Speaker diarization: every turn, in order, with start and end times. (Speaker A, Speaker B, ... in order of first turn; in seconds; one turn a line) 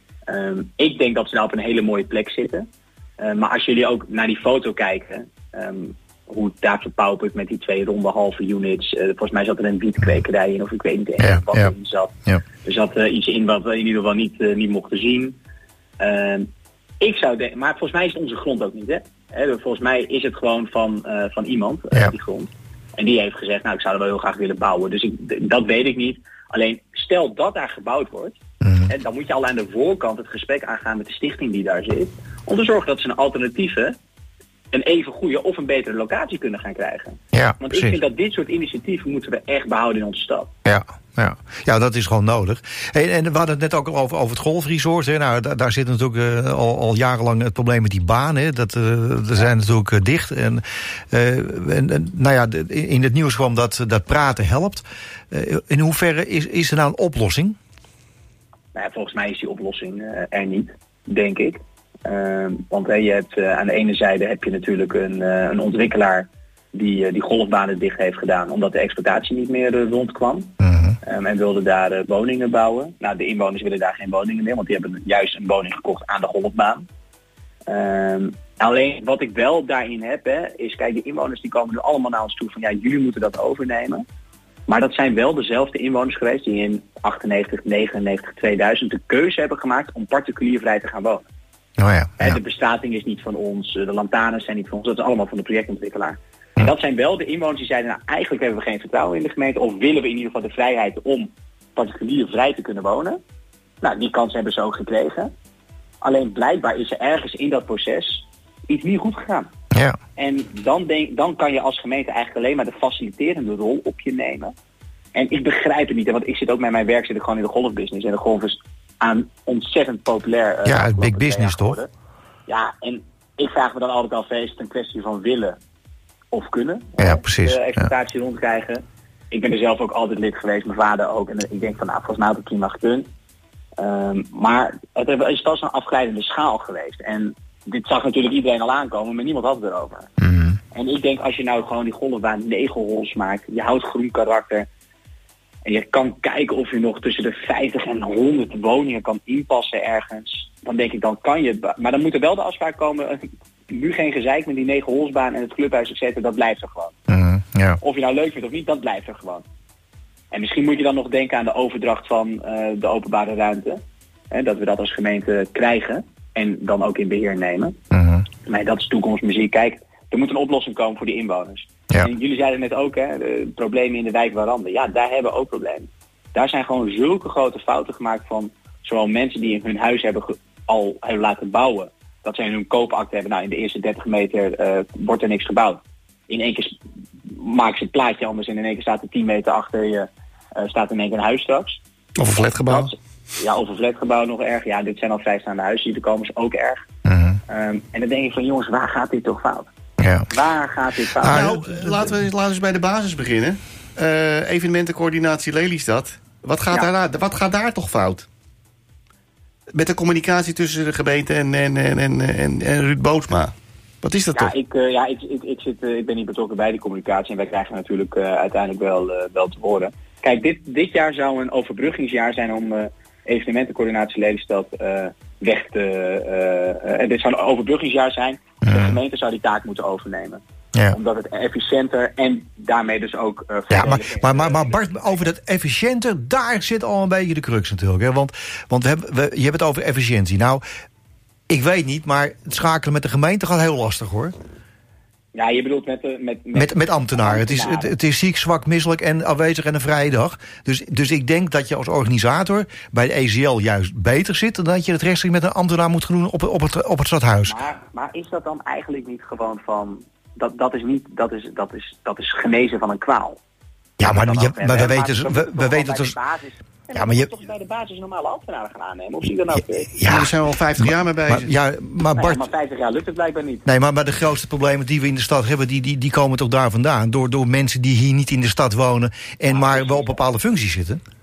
Speaker A: 0.3-2.6
Speaker A: 3.2-15.4
Speaker B: 11.2-11.7
Speaker A: 16.0-16.5
Speaker A: 17.0-34.0
Speaker B: 28.6-28.9
Speaker A: 34.7-40.5
Speaker B: 37.3-38.0
Speaker B: 40.6-57.6
Speaker A: 58.7-76.8
Speaker B: 70.6-70.9
Speaker A: 77.7-84.0
Speaker A: 84.7-91.2
Speaker B: 91.8-92.4
Speaker A: 92.2-103.2
Speaker A: 103.8-105.3
Speaker A: 106.0-109.5
Speaker B: 109.7-110.0
Speaker A: 110.2-114.5
Speaker A: 115.1-121.9
Speaker B: 120.6-121.8
Speaker A: 122.5-125.6
Speaker A: 126.3-133.1
Speaker B: 127.0-127.9
Speaker A: 133.8-140.1
Speaker A: 140.7-144.7
Speaker A: 145.6-156.9
Speaker B: 157.1-157.8
Speaker A: 157.8-159.4
Speaker A: 160.3-163.8
Speaker A: 164.3-167.8
Speaker B: 167.9-168.2
Speaker A: 168.4-186.7
Speaker A: 187.2-191.8
Speaker C: 192.2-192.9
Speaker A: 192.4-196.8
Speaker B: 197.1-197.4
Speaker A: 197.5-199.7
Speaker B: 200.0-200.3
Speaker A: 200.3-201.5
Speaker B: 201.2-202.2
Speaker C: 201.2-208.3
Speaker C: 209.7-214.5
Speaker A: 214.3-235.3
Speaker B: 228.6-229.0
Speaker B: 233.7-240.6
Speaker B: 241.5-244.3
Speaker A: 245.3-247.9
Speaker B: 246.5-257.6
Speaker A: 257.4-263.4
Speaker B: 264.0-266.1
Speaker A: 264.1-269.9
Speaker B: 266.9-267.3
Speaker B: 269.5-272.4
Speaker C: 270.0-271.5
Speaker A: 272.1-273.6
Speaker B: 273.6-281.0
Speaker A: 279.5-280.2